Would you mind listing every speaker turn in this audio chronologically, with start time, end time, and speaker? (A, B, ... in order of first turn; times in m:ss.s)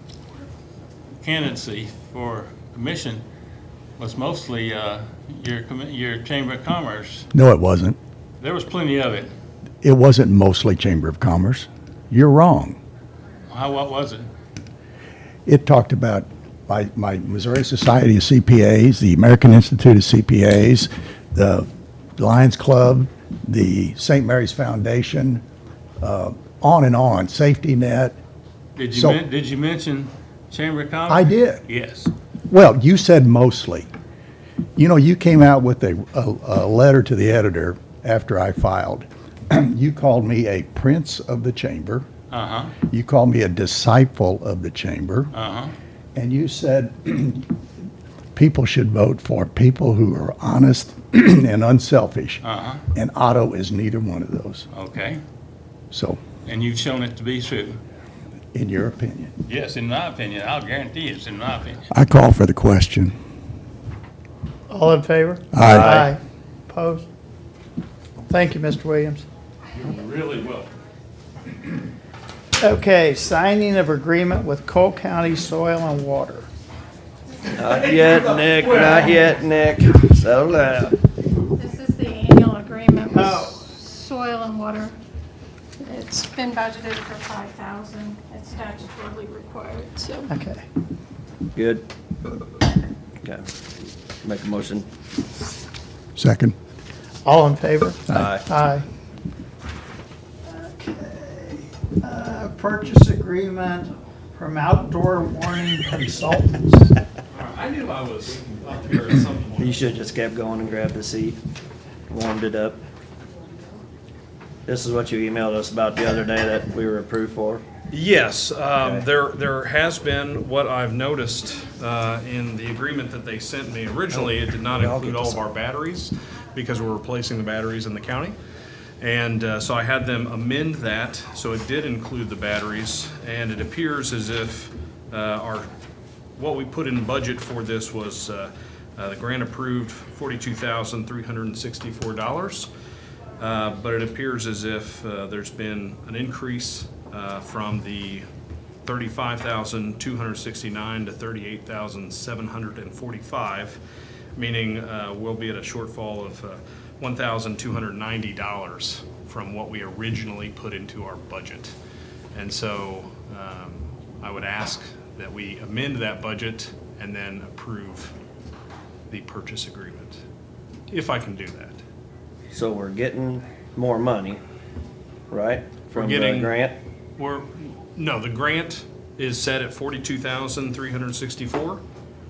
0:01.2-0:03.2 A
0:04.0-0:07.3 A
0:07.3-0:08.0 B
0:08.4-0:09.3 A
0:09.8-0:12.8 B
0:13.5-0:14.3 A
0:15.4-0:25.4 B
0:26.0-0:28.2 B
0:28.8-0:32.1 A
0:29.0-0:29.2 B
0:31.1-0:31.6 B
0:32.5-0:33.9 B
0:34.8-0:42.1 B
0:42.3-0:42.8 A
0:42.9-0:45.3 B
0:45.3-0:45.7 A
0:46.1-0:47.5 B
0:48.3-0:54.6 B
0:52.4-0:52.9 A
0:54.7-0:55.2 A
0:55.9-0:56.2 B
0:56.4-0:57.8 A
0:58.5-0:59.3 B
0:59.4-1:01.8 A
1:01.9-1:03.1 B
1:04.7-1:07.0 C
1:05.5-1:06.0 B
1:08.3-1:09.2 C
1:09.7-1:10.7 A
1:12.6-1:16.5 C
1:17.6-1:21.0 D
1:21.6-1:24.9 E
1:23.1-1:23.5 C
1:25.8-1:30.3 E
1:30.3-1:30.6 C
1:31.5-1:31.8 D
1:34.2-1:34.9 D
1:36.2-1:36.6 B
1:37.2-1:38.8 C
1:38.1-1:38.4 D
1:40.5-1:47.0 C
1:47.3-1:49.9 F
1:49.6-1:51.4 D
1:52.1-1:52.8 D
1:54.6-1:57.6 D
1:57.9-2:08.4 F
1:58.8-1:59.1 D
2:04.1-2:05.4 D
2:09.0-2:15.7 F
2:16.4-2:22.7 F
2:23.4-2:28.2 F
2:28.8-2:33.8 F
2:34.3-2:41.7 F
2:42.3-2:48.1 F
2:49.1-2:50.2 F
2:50.9-2:51.8 F
2:52.5-2:54.4 D
2:55.3-2:56.8 D
2:55.9-2:56.6 F
2:57.2-3:01.8 F